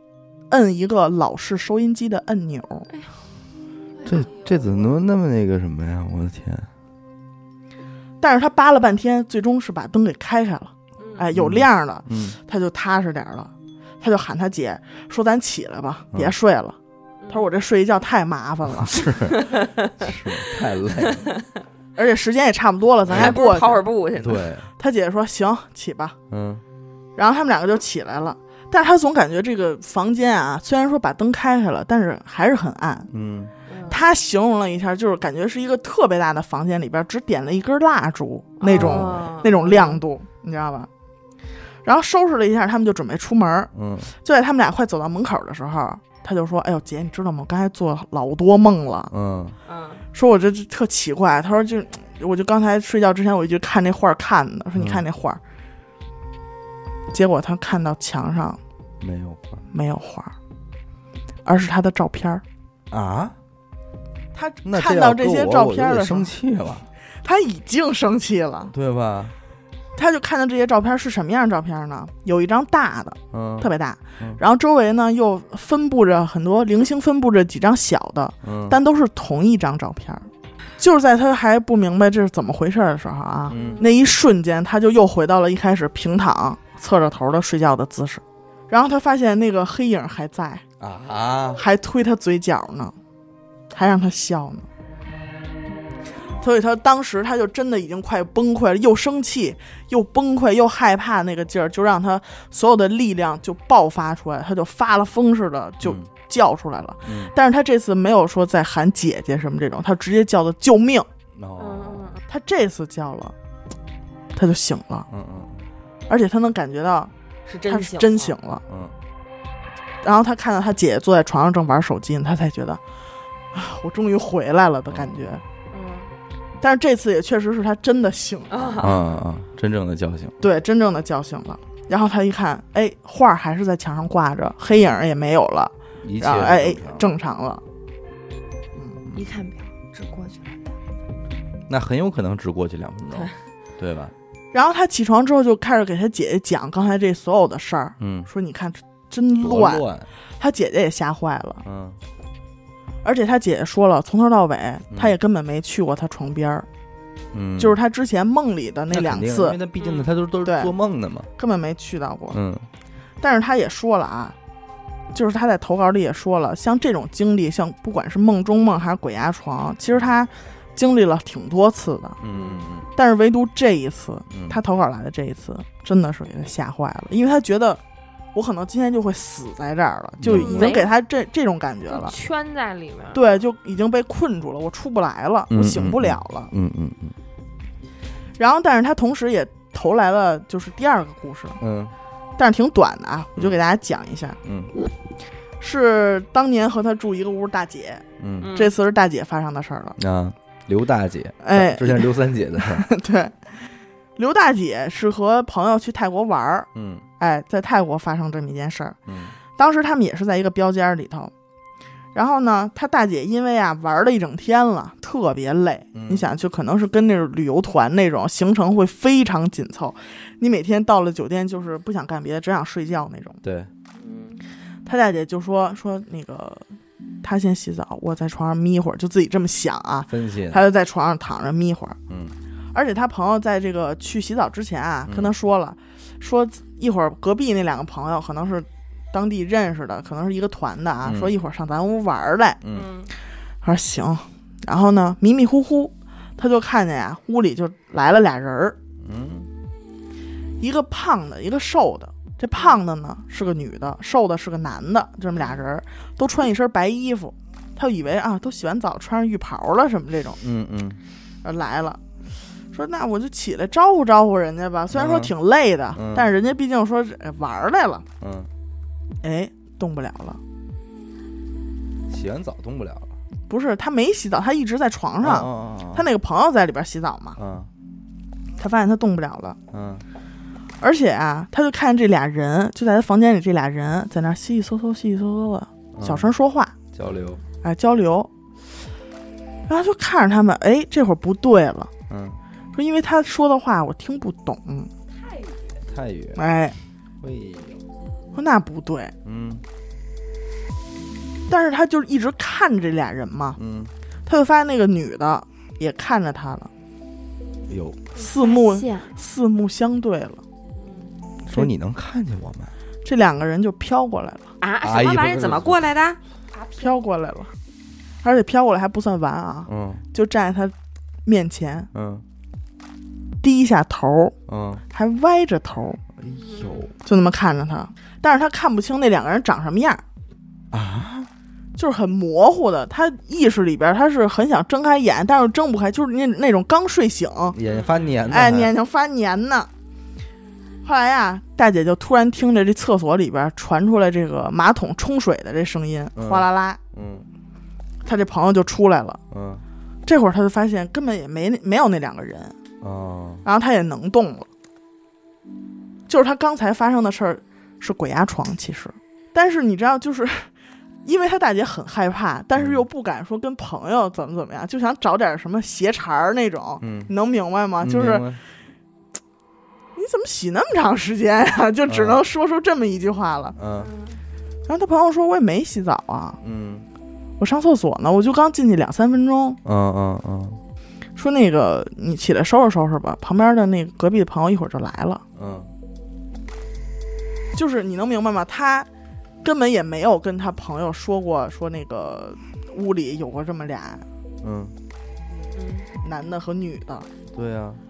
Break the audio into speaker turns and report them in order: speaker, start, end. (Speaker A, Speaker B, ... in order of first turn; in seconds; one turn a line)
Speaker A: 0.5-2.9
Speaker B: 4.0-4.3
Speaker C: 4.0-6.7
Speaker A: 8.2-16.8
Speaker C: 11.3-12.4
Speaker A: 17.3-19.0
Speaker C: 18.7-21.3
Speaker B: 19.3-20.1
Speaker B: 21.0-21.4
Speaker A: 22.0-23.9
Speaker C: 23.1-23.4
Speaker B: 23.1-24.5
Speaker C: 24.2-24.7
Speaker A: 24.8-26.2
Speaker C: 26.3-26.6
Speaker A: 27.2-33.1
Speaker C: 33.1-33.5
Speaker B: 33.7-34.0
Speaker A: 33.9-40.9
Speaker B: 38.6-40.0
Speaker C: 38.7-39.2
Speaker A: 41.9-49.1
Speaker C: 43.7-44.1
Speaker C: 49.1-49.6
Speaker B: 49.7-50.0
Speaker A: 50.1-55.4
Speaker C: 54.8-55.0
Speaker A: 57.1-58.6
Speaker C: 59.0-59.6
Speaker A: 59.7-60.4
Speaker A: 61.5-62.4
Speaker C: 62.9-63.4
Speaker A: 64.3-66.3
Speaker C: 64.7-66.9
Speaker A: 67.2-68.7
Speaker C: 68.7-69.3
Speaker A: 70.0-80.3
Speaker C: 73.3-74.4
Speaker C: 78.4-78.8
Speaker A: 80.8-90.6
Speaker B: 83.5-83.9
Speaker C: 83.5-83.8
Speaker C: 90.8-91.6
Speaker A: 91.6-93.0
Speaker A: 93.7-94.7
Speaker A: 96.4-111.1
Speaker C: 105.8-106.1
Speaker C: 107.1-107.3
Speaker C: 111.3-112.1
Speaker B: 111.6-112.2
Speaker A: 112.3-113.3
Speaker A: 114.3-115.1
Speaker C: 115.1-115.7
Speaker A: 116.1-117.1
Speaker B: 117.5-118.4
Speaker A: 117.7-118.6
Speaker C: 118.7-119.0
Speaker A: 120.0-122.8
Speaker A: 123.5-125.4
Speaker B: 125.7-126.1
Speaker A: 126.6-128.9
Speaker B: 128.5-129.1
Speaker C: 128.8-130.3
Speaker A: 130.4-137.6
Speaker C: 136.0-137.1
Speaker B: 139.2-140.8
Speaker C: 141.7-144.1
Speaker A: 144.5-149.8
Speaker C: 148.0-148.3
Speaker C: 149.4-150.1
Speaker A: 150.4-151.6
Speaker C: 151.6-152.0
Speaker A: 153.0-156.7
Speaker C: 157.3-157.8
Speaker A: 157.6-159.6
Speaker C: 158.9-161.3
Speaker B: 159.8-160.1
Speaker A: 160.4-160.7
Speaker A: 161.4-162.4
Speaker C: 162.3-162.7
Speaker A: 163.2-164.3
Speaker A: 165.1-172.2
Speaker C: 172.2-172.9
Speaker A: 172.9-177.8
Speaker C: 174.3-174.6
Speaker A: 178.3-182.2
Speaker C: 180.2-180.7
Speaker B: 180.3-180.9
Speaker B: 181.9-183.2
Speaker A: 183.1-186.5
Speaker C: 185.5-187.2
Speaker A: 188.4-191.6
Speaker C: 191.6-191.9
Speaker A: 192.4-194.4
Speaker C: 194.4-194.7
Speaker A: 195.6-200.0
Speaker C: 198.2-198.5
Speaker B: 198.4-198.7
Speaker C: 200.0-202.9
Speaker A: 201.4-203.4
Speaker A: 204.2-206.7
Speaker C: 206.8-207.0
Speaker A: 207.2-209.0
Speaker C: 209.1-209.3
Speaker A: 209.6-211.3
Speaker A: 212.1-223.4
Speaker C: 215.9-216.3
Speaker C: 223.4-223.7
Speaker B: 224.0-224.4
Speaker A: 224.8-226.7
Speaker A: 227.2-232.0
Speaker C: 230.1-230.6
Speaker C: 232.1-232.3
Speaker A: 232.7-242.6
Speaker C: 235.1-235.3
Speaker C: 241.0-241.3
Speaker C: 242.6-242.9
Speaker B: 242.7-243.1
Speaker A: 243.6-248.8
Speaker C: 249.0-249.5
Speaker A: 250.6-260.4
Speaker B: 255.4-255.6
Speaker C: 260.4-261.0
Speaker A: 261.4-262.0
Speaker A: 262.7-268.1
Speaker C: 264.9-265.3
Speaker C: 265.9-266.3
Speaker C: 268.2-268.5
Speaker A: 269.2-270.4
Speaker C: 272.1-273.1
Speaker A: 273.5-277.4
Speaker C: 275.2-276.1
Speaker C: 277.4-277.7
Speaker A: 278.6-279.6
Speaker C: 279.7-280.0
Speaker A: 280.8-286.8
Speaker C: 285.9-286.3
Speaker C: 286.9-287.4
Speaker A: 287.6-288.3
Speaker A: 289.7-291.9
Speaker C: 292.1-292.4
Speaker A: 292.8-294.9
Speaker B: 295.3-295.6
Speaker C: 295.9-296.4
Speaker A: 296.4-296.8
Speaker C: 297.2-297.8
Speaker A: 298.3-299.1
Speaker C: 299.2-299.6
Speaker A: 301.5-303.6
Speaker C: 303.6-303.9
Speaker A: 304.3-306.7
Speaker C: 307.7-308.1
Speaker B: 308.2-309.1
Speaker A: 308.2-310.4
Speaker B: 310.8-311.1
Speaker C: 311.5-312.7
Speaker A: 313.1-314.5
Speaker B: 314.6-316.9
Speaker C: 314.8-315.9
Speaker A: 316.8-317.5
Speaker A: 318.2-320.7
Speaker C: 319.7-320.0
Speaker A: 321.2-321.9
Speaker C: 321.9-322.2
Speaker A: 323.4-324.4
Speaker C: 324.5-324.8
Speaker A: 324.9-326.0
Speaker C: 326.2-326.9
Speaker A: 327.0-330.0
Speaker C: 330.7-331.3
Speaker A: 331.8-337.6
Speaker C: 337.5-338.7
Speaker B: 337.6-338.0
Speaker A: 338.3-339.7
Speaker A: 340.8-346.8
Speaker C: 346.2-347.3
Speaker A: 348.1-349.2
Speaker C: 349.3-349.6
Speaker A: 350.1-352.6
Speaker C: 352.8-353.4
Speaker A: 353.4-354.5
Speaker A: 356.1-360.5
Speaker A: 361.1-368.2
Speaker C: 362.6-362.8
Speaker C: 366.8-367.1
Speaker C: 367.8-368.4
Speaker A: 369.9-373.6
Speaker C: 371.9-372.2
Speaker C: 373.6-373.9
Speaker B: 373.7-374.2
Speaker A: 374.7-376.4
Speaker C: 376.4-376.9
Speaker A: 377.4-379.6
Speaker C: 379.6-380.6
Speaker A: 381.2-385.2
Speaker C: 385.4-385.7
Speaker A: 387.5-388.9
Speaker A: 389.4-394.1
Speaker C: 394.4-394.8
Speaker B: 395.5-395.9
Speaker A: 396.0-397.1
Speaker C: 397.3-397.8